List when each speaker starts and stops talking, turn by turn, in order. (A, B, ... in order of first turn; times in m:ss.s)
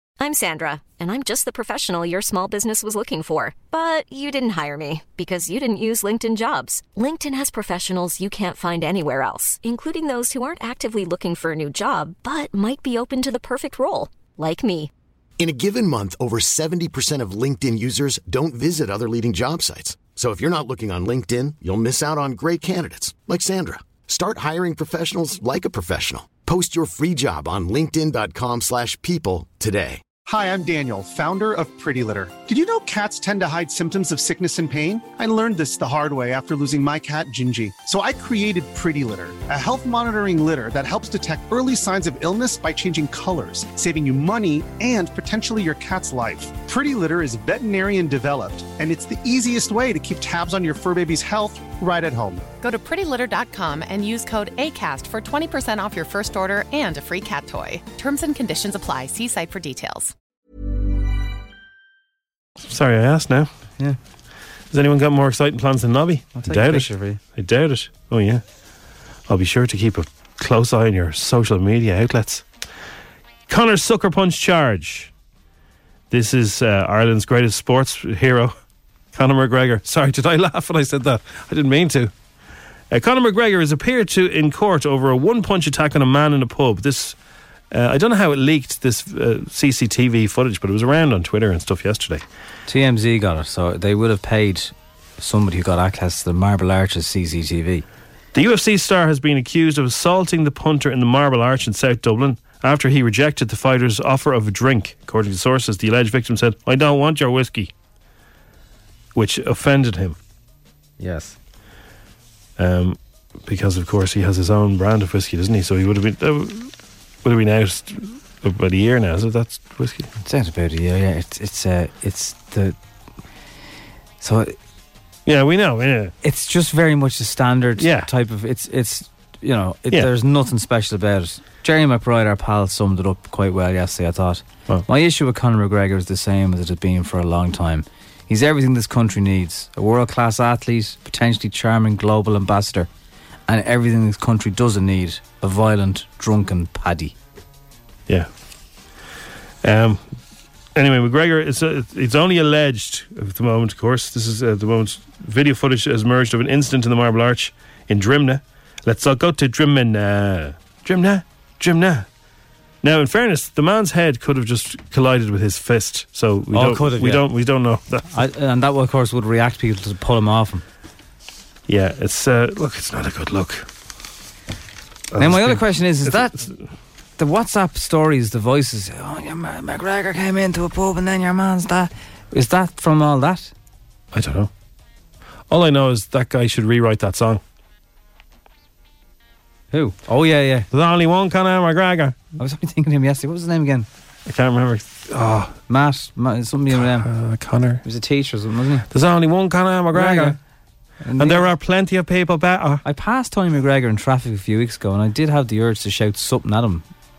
0:00.2-0:14.9 A
0:15.4-0:30.0 B
0:30.2-0:52.4 C
0:52.6-1:00.1 D
1:02.6-1:03.5 E
1:04.7-1:08.4 E
1:06.4-1:07.2 F
1:09.3-1:12.4 E
1:13.5-1:15.1 E
1:16.1-1:18.6 E
1:19.1-1:22.1 E
1:22.9-1:27.2 E
1:27.7-1:32.2 E
1:32.6-1:37.8 F
1:38.3-1:47.7 E
1:49.1-1:50.2 E
1:51.0-1:51.4 F
1:52.6-1:56.7 E
1:57.2-2:00.1 E
2:00.2-2:02.8 F
2:04.2-2:04.6 F
2:05.2-2:06.1 E
2:06.2-2:22.9 F
2:07.8-2:08.1 E
2:23.5-2:27.1 F
2:29.6-2:30.0 E
2:30.7-2:42.0 E
2:42.8-2:48.2 E
2:46.5-2:47.2 F
2:48.1-2:50.6 F
2:51.7-2:53.7 E
2:55.1-2:56.5 E
2:55.2-2:56.4 F
2:57.2-3:03.5 F
3:04.1-3:04.5 E
3:05.5-3:07.4 E
3:09.7-3:10.7 F
3:10.7-3:12.2 E
3:12.4-3:13.9 F
3:14.2-3:15.6 E
3:15.7-3:17.1 F
3:16.7-3:17.8 E
3:17.8-3:18.9 F
3:18.9-3:20.4 E
3:19.9-3:20.4 F
3:21.0-3:21.5 F
3:21.2-3:22.8 E
3:22.8-3:26.9 F